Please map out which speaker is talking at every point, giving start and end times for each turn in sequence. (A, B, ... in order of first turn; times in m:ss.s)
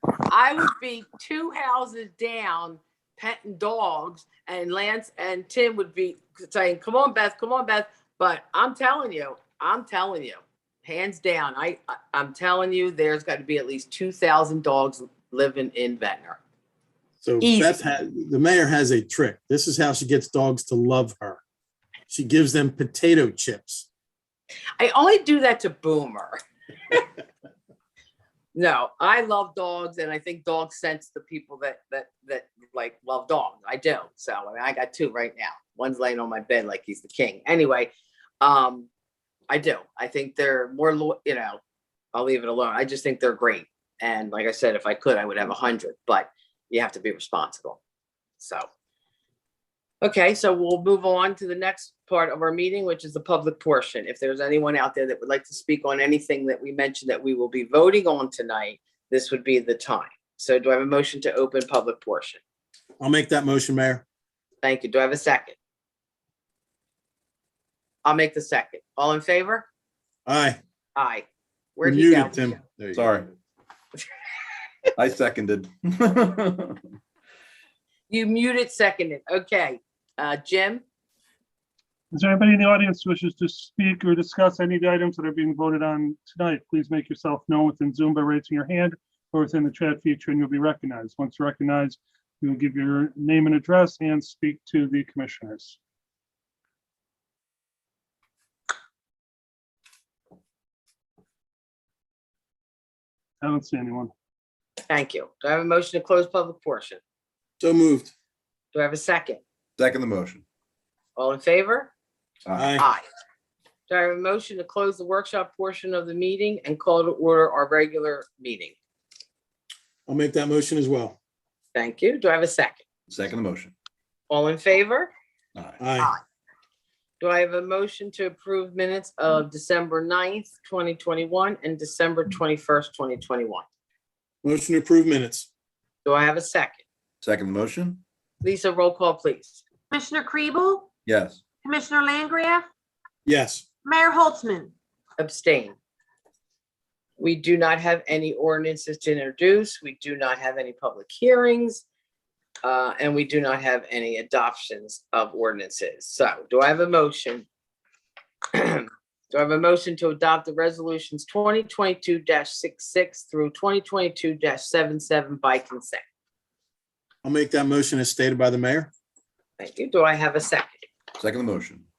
0:00.3-0:16.4 A
0:17.2-0:21.4 B
0:17.4-0:17.8 A
0:22.1-0:23.9 B
0:24.8-0:26.4 A
0:28.5-0:37.9 A
0:38.4-0:38.9 A
0:39.5-0:41.6 A
0:42.1-0:47.8 A
0:48.4-0:48.6 A
0:50.0-1:02.4 A
1:03.0-1:04.0 B
1:04.6-1:05.6 A
1:08.0-1:09.7 A
1:10.3-1:10.6 B
1:11.0-1:12.5 A
1:11.8-1:13.0 B
1:12.9-1:13.3 C
1:15.0-1:16.8 C
1:18.1-1:20.8 A
1:22.1-1:35.8 D
1:43.4-1:44.1 D
1:44.9-1:47.0 A
1:47.6-1:48.1 B
1:48.7-1:49.4 A
1:49.8-1:50.4 C
1:51.2-1:51.9 A
1:52.5-1:52.7 C
1:52.6-1:52.9 B
1:52.8-1:53.0 A
1:53.9-1:58.8 A
2:00.1-2:01.2 B
2:01.8-2:02.8 A
2:03.1-2:03.7 C
2:04.3-2:05.1 A
2:05.8-2:06.1 B
2:07.2-2:13.6 A
2:14.4-2:15.5 B
2:16.0-2:16.8 A
2:17.2-2:18.0 C
2:18.4-2:19.6 A
2:19.9-2:20.9 E
2:21.1-2:21.4 C
2:21.6-2:22.7 E
2:23.3-2:23.6 B
2:23.8-2:24.7 E
2:25.2-2:25.8 A
2:27.2-2:31.8 A
2:32.6-2:37.5 A
2:38.5-2:46.0 A
2:47.2-2:48.9 B
2:49.6-2:50.9 A
2:51.2-2:51.9 C